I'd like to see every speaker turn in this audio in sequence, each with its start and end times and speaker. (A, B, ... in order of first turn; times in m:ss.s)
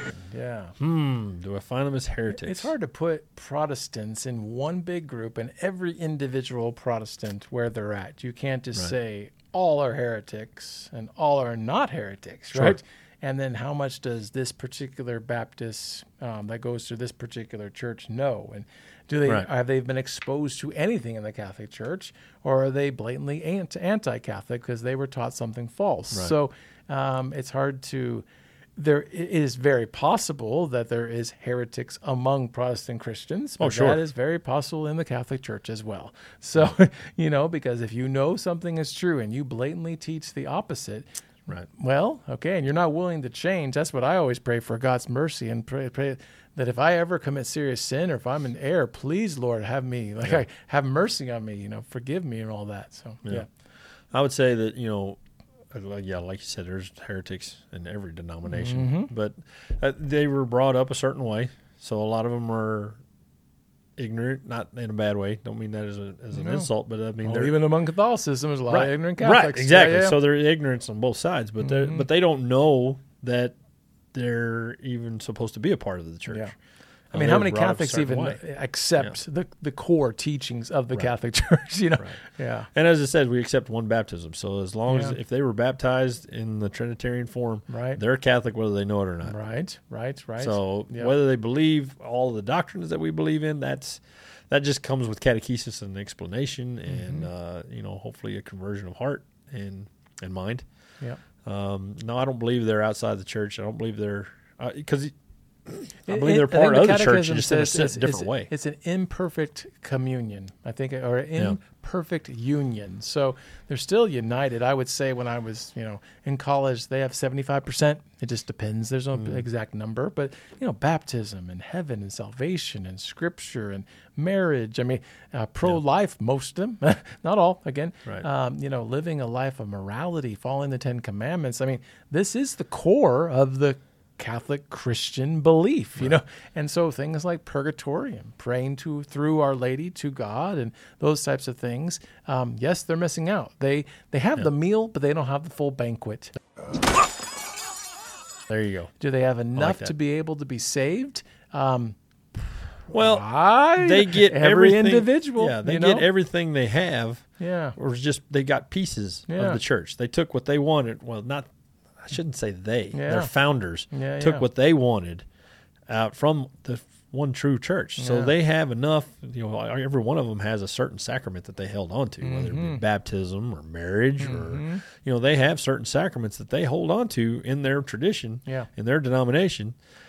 0:00.3-0:00.7 A
0:00.8-0:02.7 B
0:02.3-0:28.2 A
0:28.8-0:53.5 A
0:33.6-0:34.0 B
0:54.1-0:55.2 B
0:55.7-1:03.0 B
0:58.5-0:59.1 A
1:04.0-1:07.6 B
1:06.3-1:06.7 A
1:07.2-1:10.2 A
1:08.7-1:13.6 B
1:11.6-1:12.0 A
1:14.1-1:16.5 B
1:17.1-1:18.4 B
1:17.1-1:22.7 A
1:22.7-1:29.4 B
1:24.9-1:25.2 A
1:27.7-1:28.0 A
1:29.2-1:31.1 A
1:30.4-1:40.6 B
1:36.9-1:37.3 A
1:41.4-1:45.1 B
1:45.6-1:48.5 B
1:46.1-2:26.3 A
1:59.1-1:59.4 B
2:28.5-2:28.9 B
2:29.0-2:36.0 A
2:29.5-2:29.9 B
2:32.9-2:45.2 B
2:37.4-2:37.7 A
2:39.3-2:39.6 A
2:42.9-2:43.3 A
2:43.9-2:44.4 A
2:45.9-2:59.8 B
2:48.0-2:48.3 A
2:52.2-2:52.8 A
2:54.2-2:54.8 A